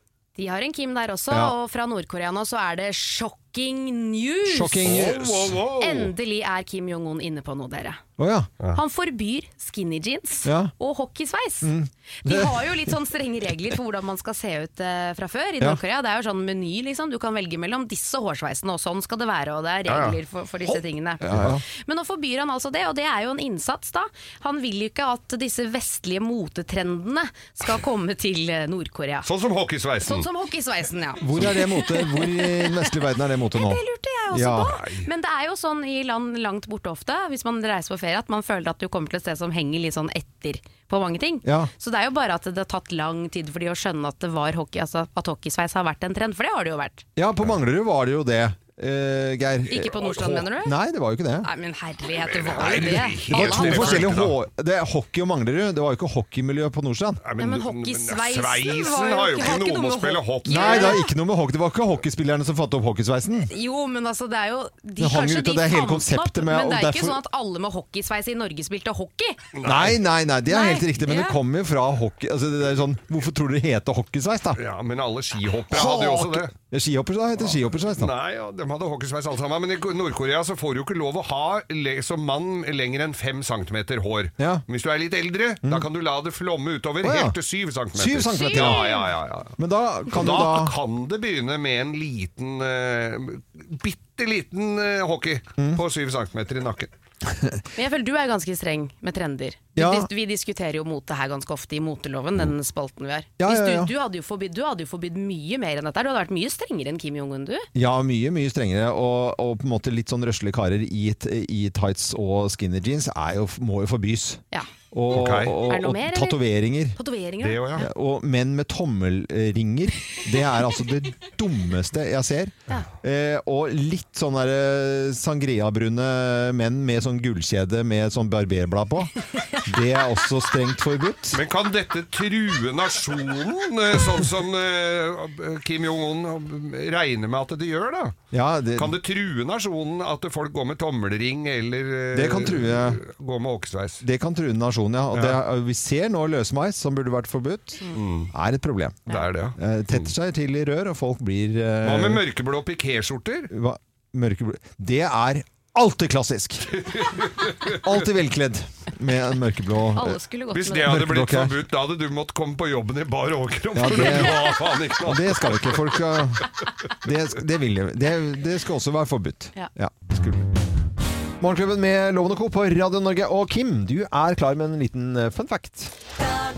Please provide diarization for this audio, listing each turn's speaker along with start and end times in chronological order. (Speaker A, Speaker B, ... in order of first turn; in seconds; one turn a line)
Speaker A: 0.3-4.9
Speaker B: 4.4-5.6
Speaker C: 4.8-6.1
Speaker A: 5.8-8.0
Speaker B: 8.2-8.5
Speaker A: 8.7-11.7
Speaker B: 10.4-10.7
Speaker B: 11.6-12.8
Speaker A: 12.2-29.3
Speaker C: 19.9-20.2
Speaker B: 21.2-21.6
Speaker C: 29.2-30.3
Speaker A: 30.1-32.9
Speaker B: 31.2-33.8
Speaker A: 33.5-47.0
Speaker B: 34.3-34.7
Speaker C: 34.7-35.1
Speaker B: 41.4-41.7
Speaker B: 47.1-51.5
Speaker A: 49.7-50.7
Speaker A: 51.4-54.1
Speaker C: 52.2-54.4
Speaker B: 52.7-57.2
Speaker C: 57.2-61.0
Speaker A: 57.4-61.1
Speaker B: 60.4-63.5
Speaker A: 63.5-69.4
Speaker B: 65.0-67.2
Speaker C: 69.5-70.0
Speaker B: 69.6-74.6
Speaker A: 70.5-71.4
Speaker C: 74.5-76.5
Speaker B: 75.7-78.1
Speaker C: 77.4-89.5
Speaker B: 87.0-87.3
Speaker B: 87.9-88.8
Speaker A: 88.3-89.1
Speaker B: 89.6-90.8
Speaker C: 90.1-96.9
Speaker B: 97.3-97.6
Speaker A: 97.8-107.7
Speaker B: 99.8-100.1
Speaker B: 103.4-103.9
Speaker B: 107.7-117.0
Speaker C: 115.1-115.6
Speaker A: 115.7-116.4
Speaker A: 116.9-117.8
Speaker C: 117.4-117.8
Speaker B: 117.8-131.4
Speaker C: 131.3-138.2
Speaker B: 138.3-139.0
Speaker C: 138.7-144.0
Speaker B: 142.1-143.0
Speaker B: 144.0-152.2
Speaker C: 145.1-145.4
Speaker C: 147.9-148.3
Speaker C: 149.1-150.1
Speaker C: 151.8-153.5
Speaker B: 153.5-156.7
Speaker C: 156.7-158.1
Speaker B: 157.8-160.2
Speaker A: 159.9-160.9
Speaker C: 160.5-166.2
Speaker B: 160.8-161.6
Speaker B: 163.7-164.4
Speaker A: 163.9-164.6
Speaker B: 165.0-166.5
Speaker B: 167.0-170.5
Speaker B: 171.4-175.9